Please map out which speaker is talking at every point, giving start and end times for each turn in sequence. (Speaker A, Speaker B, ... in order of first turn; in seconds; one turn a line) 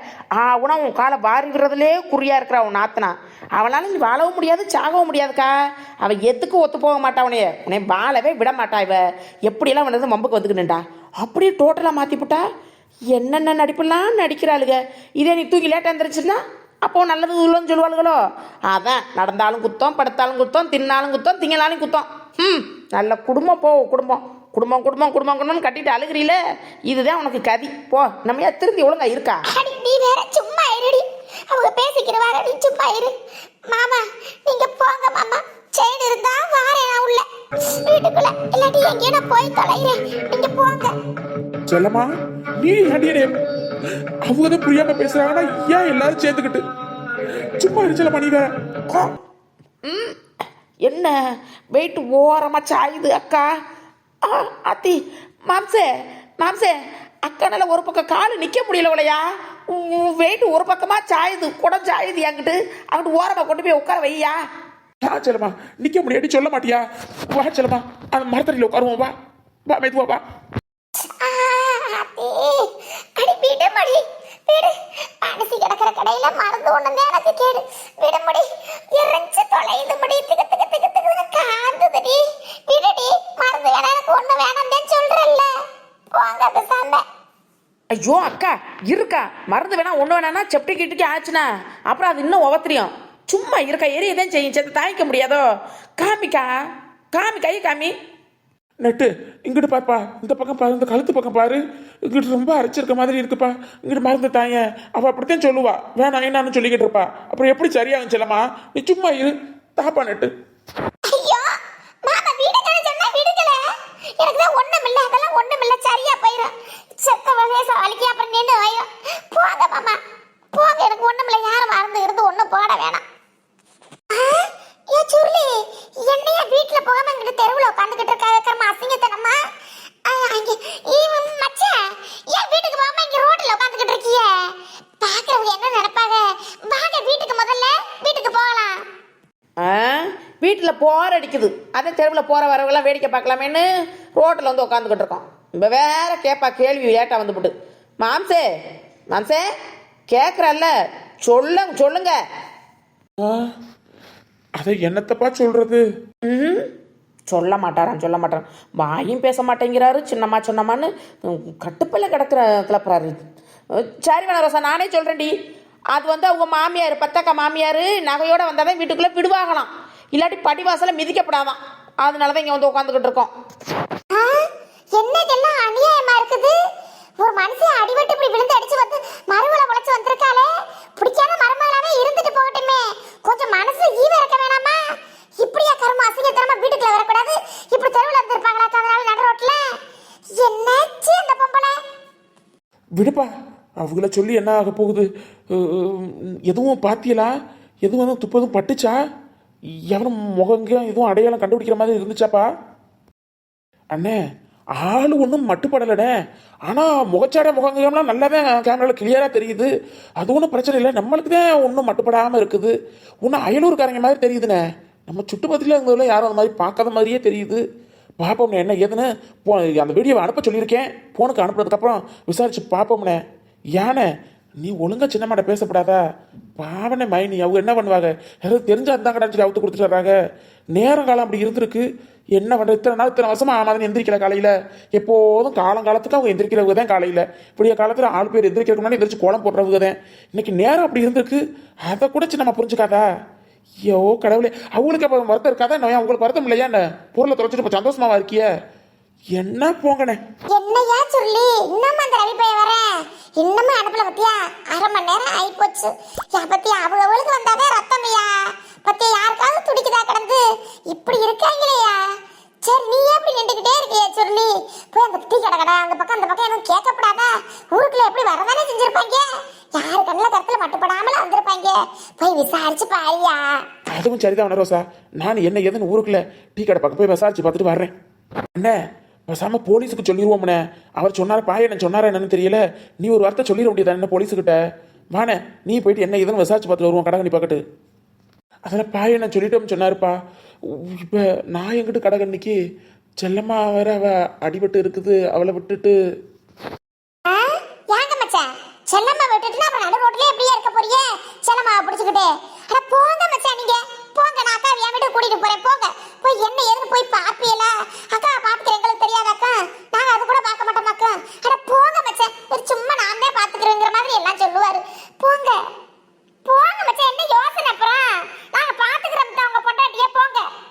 Speaker A: 0.4-12.4
Speaker A: 13.1-29.4
Speaker B: 29.5-33.1
Speaker B: 33.7-37.2
Speaker B: 37.8-40.9
Speaker C: 41.7-42.1
Speaker C: 42.6-43.3
Speaker C: 44.2-46.6
Speaker C: 47.6-48.5
Speaker A: 49.8-50.2
Speaker A: 50.9-51.1
Speaker A: 51.7-53.5
Speaker A: 54.2-55.9
Speaker A: 56.4-56.8
Speaker A: 57.2-64.4
Speaker C: 65.0-69.1
Speaker C: 69.7-70.2
Speaker B: 71.2-85.5
Speaker B: 86.1-87.0
Speaker A: 87.9-95.5
Speaker A: 96.0-96.5
Speaker A: 97.1-97.9
Speaker C: 98.8-110.3
Speaker B: 111.1-111.5
Speaker B: 112.0-113.6
Speaker B: 114.2-120.0
Speaker B: 120.5-123.0
Speaker B: 124.1-125.5
Speaker B: 126.1-129.4
Speaker B: 130.1-131.8
Speaker B: 132.3-138.8
Speaker A: 139.6-148.4
Speaker A: 149.1-149.4
Speaker A: 150.1-152.2
Speaker C: 153.2-153.5
Speaker C: 154.6-155.8
Speaker A: 156.2-156.7
Speaker A: 157.3-163.2
Speaker A: 163.8-165.3
Speaker A: 165.9-173.3
Speaker B: 174.1-174.4
Speaker B: 174.9-176.5
Speaker B: 177.2-184.8
Speaker B: 185.4-189.6
Speaker B: 190.4-191.8
Speaker C: 193.0-193.3
Speaker C: 193.8-197.3
Speaker C: 197.8-199.0
Speaker C: 199.9-202.4
Speaker C: 203.9-204.2
Speaker C: 204.8-206.1
Speaker C: 206.7-212.7
Speaker C: 213.2-217.6
Speaker C: 218.2-223.2
Speaker C: 223.8-224.1
Speaker C: 224.6-226.0
Speaker C: 226.6-230.1
Speaker C: 230.7-231.8
Speaker C: 232.4-243.0
Speaker C: 243.9-248.4
Speaker C: 249.3-250.2
Speaker B: 250.5-258.3
Speaker B: 258.8-262.0
Speaker B: 262.6-273.6
Speaker C: 273.9-277.9
Speaker C: 279.3-284.6
Speaker C: 285.1-287.6
Speaker C: 288.7-290.1
Speaker C: 290.7-292.6
Speaker C: 293.2-295.9
Speaker B: 297.2-315.6
Speaker B: 316.4-320.5